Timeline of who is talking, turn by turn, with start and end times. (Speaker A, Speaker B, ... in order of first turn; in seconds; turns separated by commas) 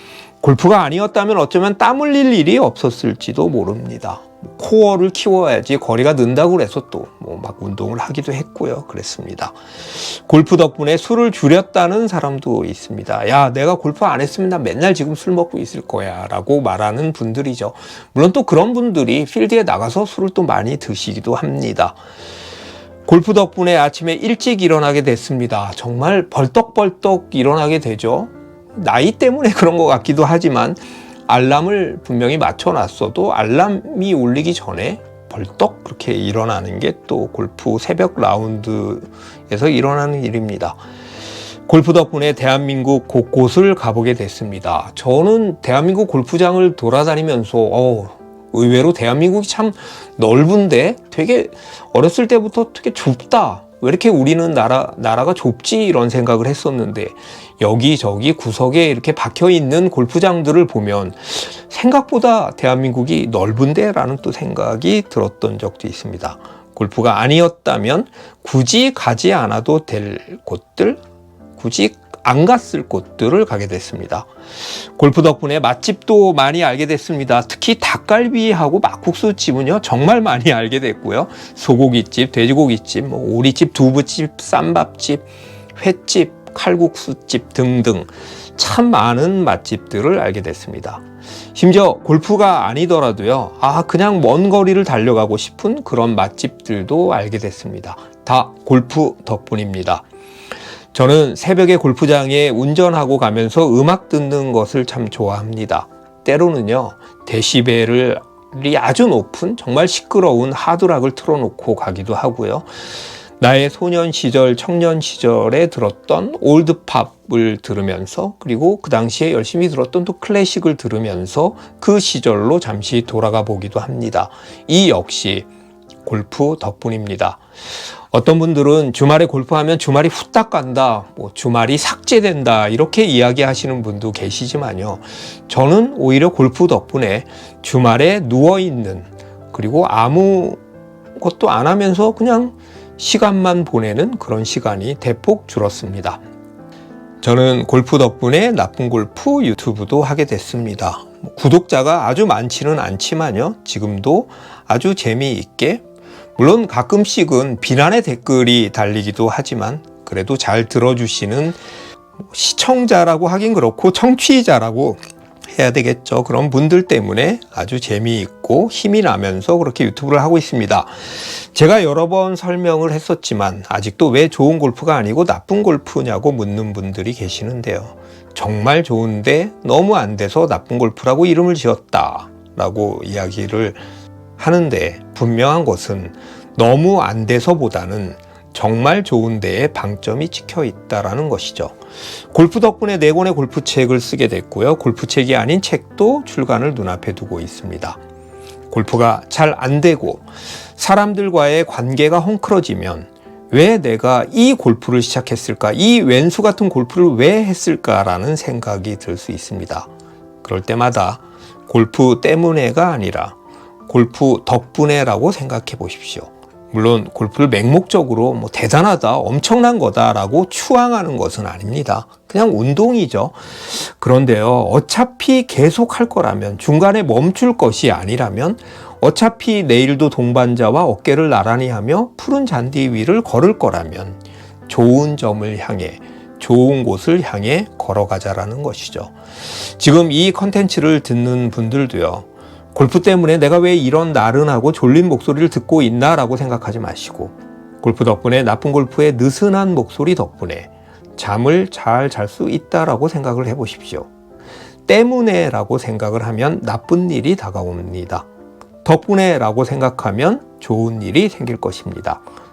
Speaker A: 0.4-22.0, Speaker A: 23.1-40.8, Speaker A: 41.7-71.0, Speaker A: 71.6-91.0, Speaker A: 91.5-100.0, Speaker A: 100.9-112.7, Speaker A: 113.4-125.5, Speaker A: 126.0-127.4, Speaker A: 128.1-140.6, Speaker A: 141.2-146.2, Speaker A: 147.2-155.8, Speaker A: 156.4-161.6, Speaker A: 162.3-165.0, Speaker A: 165.5-183.8, Speaker A: 184.4-191.8, Speaker A: 192.3-198.0, Speaker A: 198.7-209.9, Speaker A: 210.4-213.3, Speaker A: 213.9-254.1, Speaker A: 254.9-258.3, Speaker A: 258.8-262.2